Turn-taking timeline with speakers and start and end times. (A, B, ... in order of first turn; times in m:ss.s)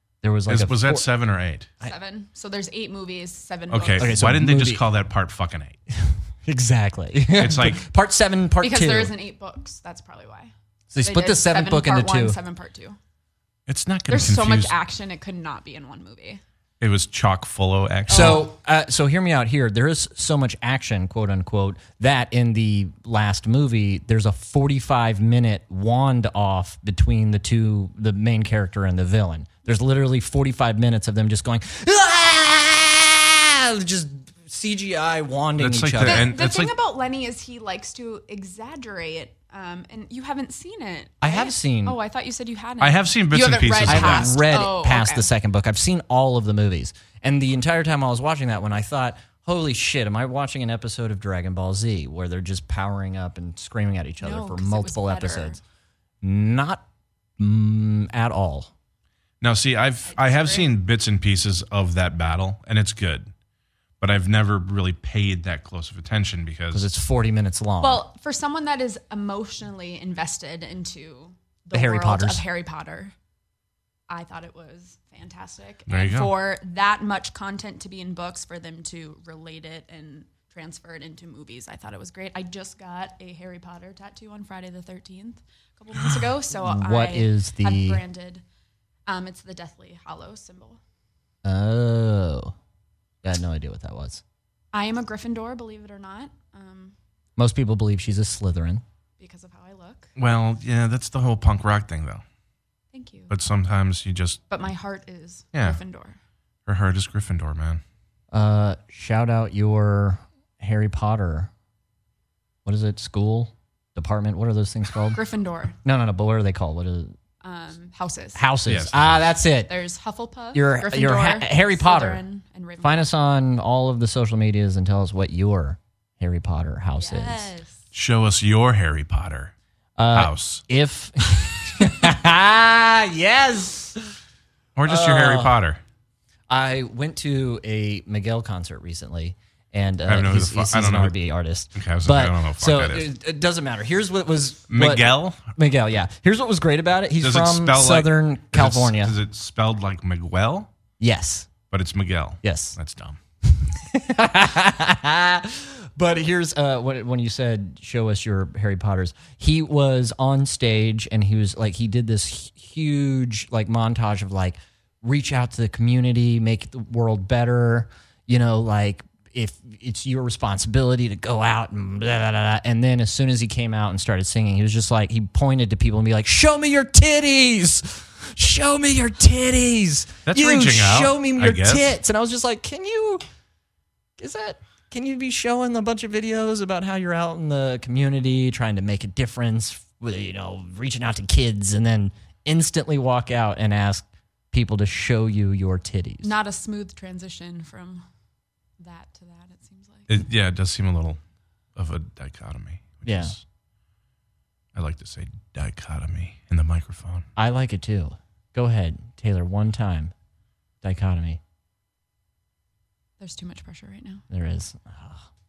0:00.2-0:01.0 A
0:00.5-0:01.7 B
0:01.8-0:04.2 C
0:03.7-0:05.8 B
0:04.0-0:04.8 A
0:06.4-0:09.2 A
0:07.4-0:07.8 B
0:08.6-0:10.5 C
0:10.9-0:12.4 A
0:11.0-0:13.0 C
0:13.7-0:14.7 B
0:14.1-0:16.4 C
0:16.8-0:18.4 B
0:18.1-0:18.4 C
0:18.1-0:36.3 A
0:35.6-0:36.7 B
0:36.0-0:45.3 C
0:41.2-0:42.0 A
0:42.8-0:44.4 B
0:43.8-0:55.6 A
0:54.2-0:55.6 C
0:56.2-0:56.8 A
0:57.4-0:58.7 A
0:59.4-1:03.3 B
1:00.1-1:00.7 C
1:04.0-1:06.9 B
1:06.7-1:08.0 A
1:07.8-1:13.1 C
1:11.7-1:12.4 A
1:14.1-1:28.4 C
1:15.9-1:16.3 B
1:26.6-1:28.0 A
1:29.0-1:30.8 C
1:31.4-1:32.5 A
1:33.2-1:34.2 A
1:34.7-1:36.9 C
1:37.4-1:38.8 A
1:39.2-1:40.1 C
1:40.2-1:42.2 B
1:42.9-1:43.3 C
1:43.3-1:44.4 B
1:44.5-1:46.2 C
1:45.5-1:45.8 B
1:46.6-1:47.8 B
1:48.3-1:51.5 A
1:52.6-1:55.2 A
1:55.1-1:55.8 C
1:55.8-1:57.1 A
1:57.4-1:58.4 C
1:58.4-1:59.7 A
1:58.6-1:59.3 B
1:59.7-2:03.1 C
2:00.5-2:02.2 A
2:02.8-2:07.5 A
2:07.0-2:07.8 C
2:07.9-2:09.5 B
2:10.0-2:14.0 A
2:10.1-2:10.6 B
2:14.8-2:15.8 B
2:14.8-2:15.6 A
2:16.5-2:29.2 A
2:20.1-2:21.1 B
2:21.7-2:23.1 B
2:24.7-2:25.5 B
2:27.2-2:30.7 B
2:31.0-2:31.5 A
2:31.7-2:33.2 B
2:32.4-2:32.8 A
2:33.5-3:03.2 A
3:00.2-3:01.9 B
3:04.2-3:16.3 A
3:16.2-3:18.0 C
3:18.8-3:20.1 C
3:20.1-3:21.2 B
3:21.8-3:23.4 B
3:23.0-3:23.3 A
3:24.7-3:27.2 B
3:27.4-3:30.1 A
3:30.8-3:31.4 A
3:33.2-3:34.2 C
3:34.3-3:35.2 A